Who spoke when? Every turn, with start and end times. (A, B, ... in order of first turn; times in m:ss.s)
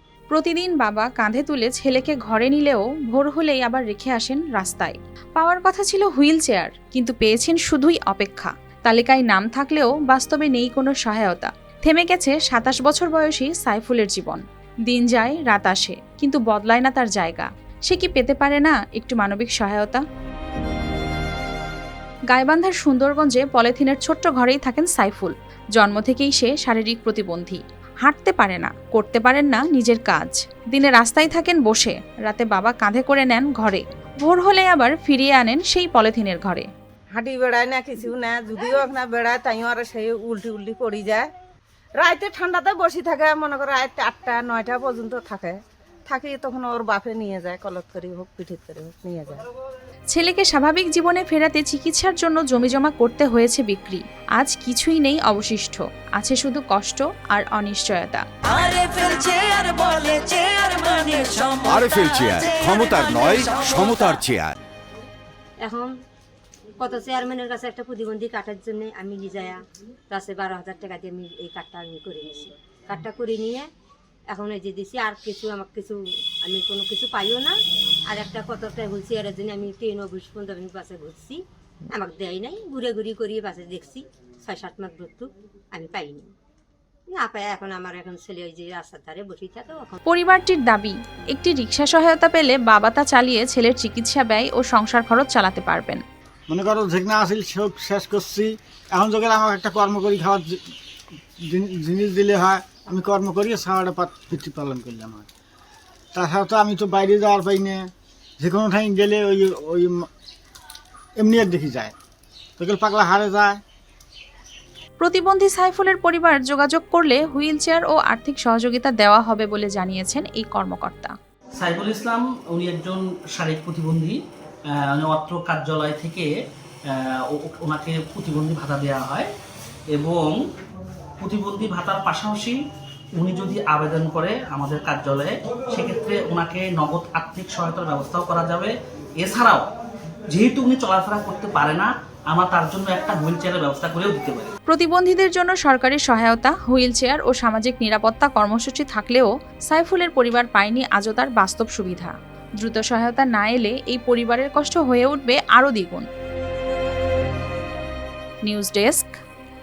0:00.3-0:20.0 A
0:22.3-0:36.7 A
0:37.1-0:41.3 B
0:42.0-0:49.4 B
0:50.1-0:59.3 A
0:59.3-1:01.5 C
1:00.2-1:00.6 A
1:01.6-1:04.6 D
1:05.6-1:05.9 E
1:06.8-1:13.7 E
1:14.3-1:17.6 E
1:18.1-1:21.4 E
1:21.9-1:26.3 E
1:27.1-1:30.0 E
1:30.0-1:36.0 A
1:36.5-1:40.6 F
1:41.4-1:45.3 F
1:46.1-1:50.1 F
1:51.2-1:51.9 F
1:52.6-1:53.6 F
1:55.0-2:01.2 A
2:01.6-2:04.2 G
2:04.7-2:06.3 G
2:06.8-2:09.3 G
2:09.9-2:10.4 G
2:11.2-2:12.6 G
2:13.1-2:19.6 G
2:20.3-2:24.5 G
2:24.7-2:36.1 A
2:38.4-2:39.2 A